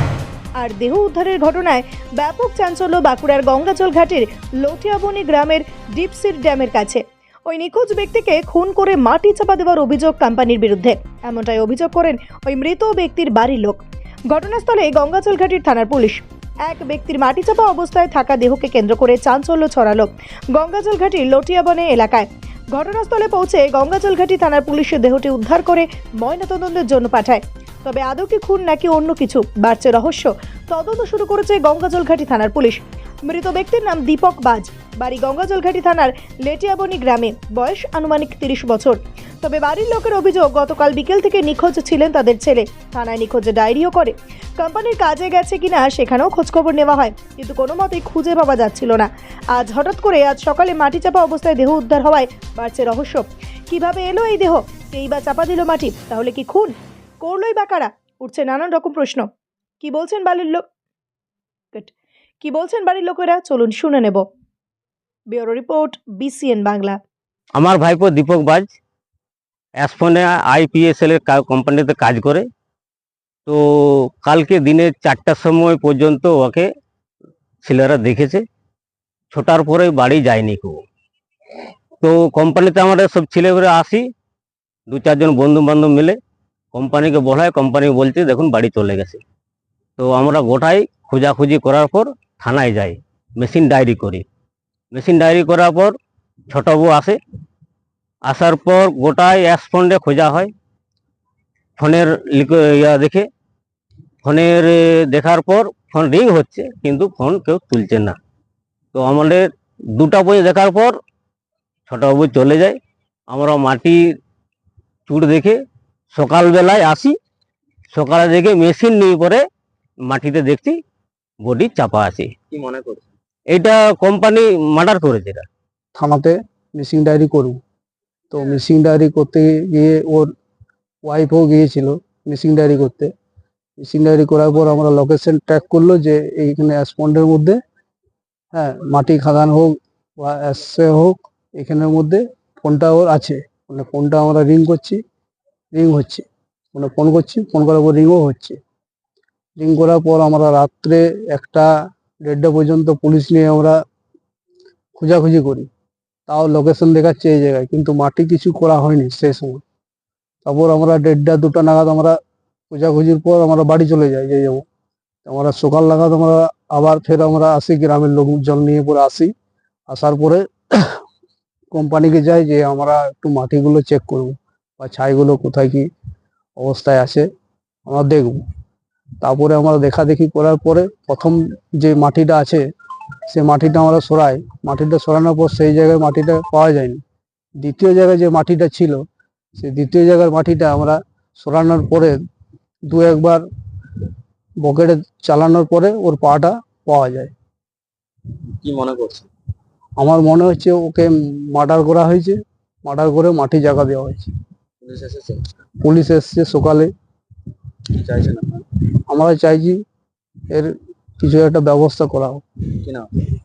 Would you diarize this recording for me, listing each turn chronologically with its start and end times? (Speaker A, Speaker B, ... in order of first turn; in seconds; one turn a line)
Speaker A: 0.6-59.3
Speaker A: 59.8-60.6
Speaker A: 61.7-64.2
Speaker A: 65.3-67.0
Speaker B: 67.6-68.7
Speaker B: 69.8-72.4
Speaker B: 74.2-76.7
Speaker B: 77.6-78.4
Speaker B: 79.3-80.8
Speaker B: 82.0-84.0
Speaker B: 84.9-86.2
Speaker B: 86.7-89.2
Speaker B: 90.0-94.2
Speaker B: 94.9-95.9
Speaker B: 96.5-97.2
Speaker B: 98.3-100.5
Speaker B: 101.8-103.2
Speaker B: 104.2-108.2
Speaker B: 108.9-110.9
Speaker B: 111.9-112.8
Speaker B: 113.3-114.0
Speaker B: 115.1-115.6
Speaker B: 116.1-117.1
Speaker B: 117.9-119.4
Speaker B: 120.1-120.8
Speaker B: 121.4-122.3
Speaker C: 122.5-123.1
Speaker B: 123.5-125.4
Speaker D: 125.9-127.6
Speaker D: 128.3-130.3
Speaker D: 131.0-133.1
Speaker D: 133.8-137.6
Speaker D: 138.5-145.0
Speaker D: 145.7-148.6
Speaker D: 149.6-151.7
Speaker D: 152.2-153.8
Speaker D: 155.0-155.7
Speaker D: 156.3-159.6
Speaker D: 160.4-162.2
Speaker D: 162.7-164.6
Speaker D: 165.2-169.3
Speaker D: 169.9-171.0
Speaker D: 171.7-175.9
Speaker D: 176.6-177.2
Speaker D: 177.9-178.4
Speaker D: 179.2-182.7
Speaker D: 183.3-187.0
Speaker D: 187.6-189.0
Speaker D: 189.6-192.2
Speaker D: 192.9-193.4
Speaker D: 194.6-197.3
Speaker C: 198.6-199.3
Speaker D: 200.0-204.3
Speaker C: 204.8-205.4
Speaker D: 205.8-206.9
Speaker C: 208.0-208.6
Speaker D: 209.1-209.8
Speaker D: 210.5-212.4